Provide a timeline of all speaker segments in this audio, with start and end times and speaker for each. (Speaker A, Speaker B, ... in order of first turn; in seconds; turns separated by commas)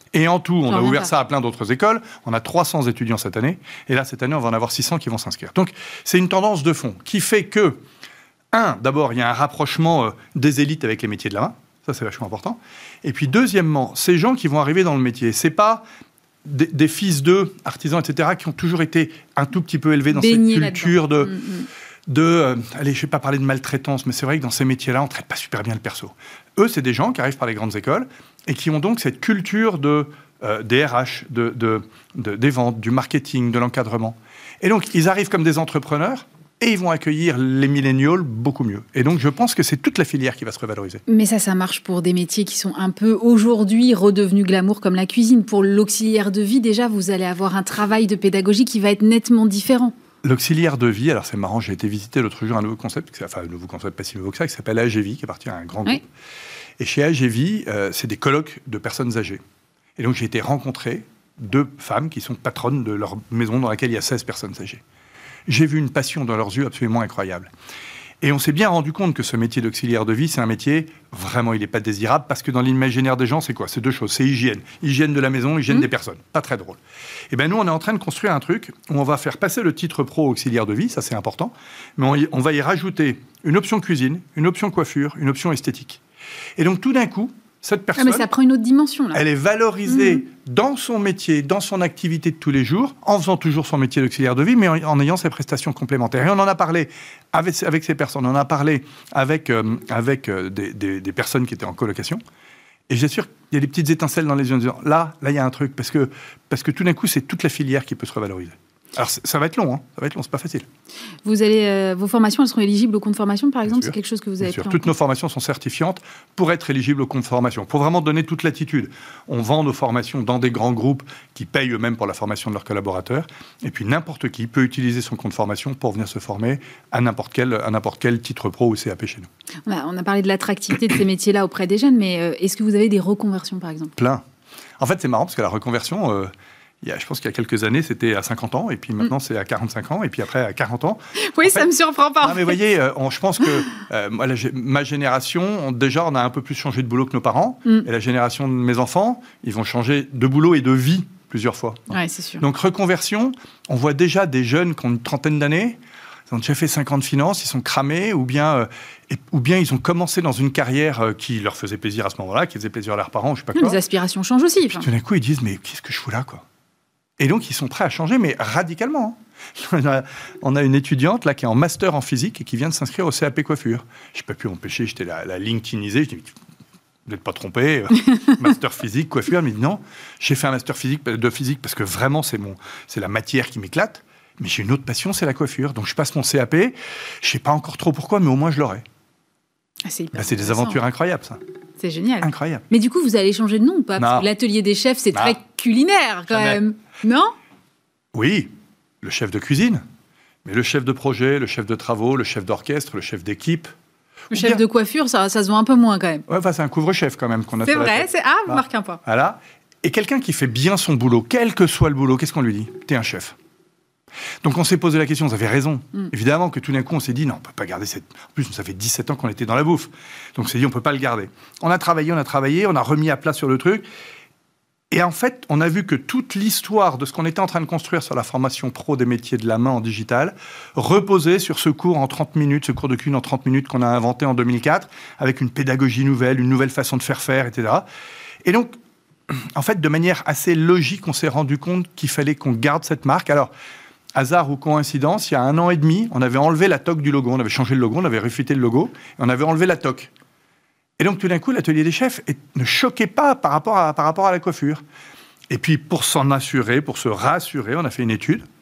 Speaker A: 0.1-7.8, Speaker B: 0.7-1.1, Speaker A: 8.5-15.9, Speaker A: 16.4-21.4, Speaker B: 20.1-21.7, Speaker A: 22.1-41.0, Speaker B: 41.1-49.9, Speaker A: 50.2-56.0, Speaker A: 56.8-59.4, Speaker A: 60.0-64.8, Speaker A: 65.5-67.5, Speaker A: 68.2-76.8, Speaker A: 77.3-86.0, Speaker A: 86.6-88.3, Speaker B: 88.0-89.2, Speaker A: 89.1-102.2, Speaker B: 89.9-90.2, Speaker A: 102.9-110.7, Speaker B: 111.2-114.9, Speaker A: 113.7-129.3, Speaker B: 129.7-133.9, Speaker A: 134.0-134.2, Speaker A: 134.8-141.7, Speaker B: 141.2-142.6, Speaker A: 142.2-155.8, Speaker B: 151.9-152.4, Speaker A: 156.3-163.8, Speaker B: 163.6-164.9, Speaker A: 164.8-166.4, Speaker A: 167.2-176.3, Speaker A: 177.1-188.8, Speaker B: 189.8-190.8, Speaker A: 190.2-191.4, Speaker B: 191.8-197.3, Speaker A: 192.2-192.6, Speaker A: 194.0-194.3, Speaker A: 195.1-195.4, Speaker A: 196.3-196.6, Speaker A: 198.1-198.5, Speaker A: 199.0-199.8, Speaker A: 200.4-203.7, Speaker A: 204.3-204.6, Speaker B: 204.3-206.2, Speaker A: 206.3-213.3, Speaker B: 207.6-209.0, Speaker A: 214.4-223.9, Speaker A: 224.9-237.9, Speaker A: 238.4-238.8, Speaker A: 239.3-243.5, Speaker A: 244.2-250.1, Speaker A: 251.0-254.8, Speaker A: 255.5-258.4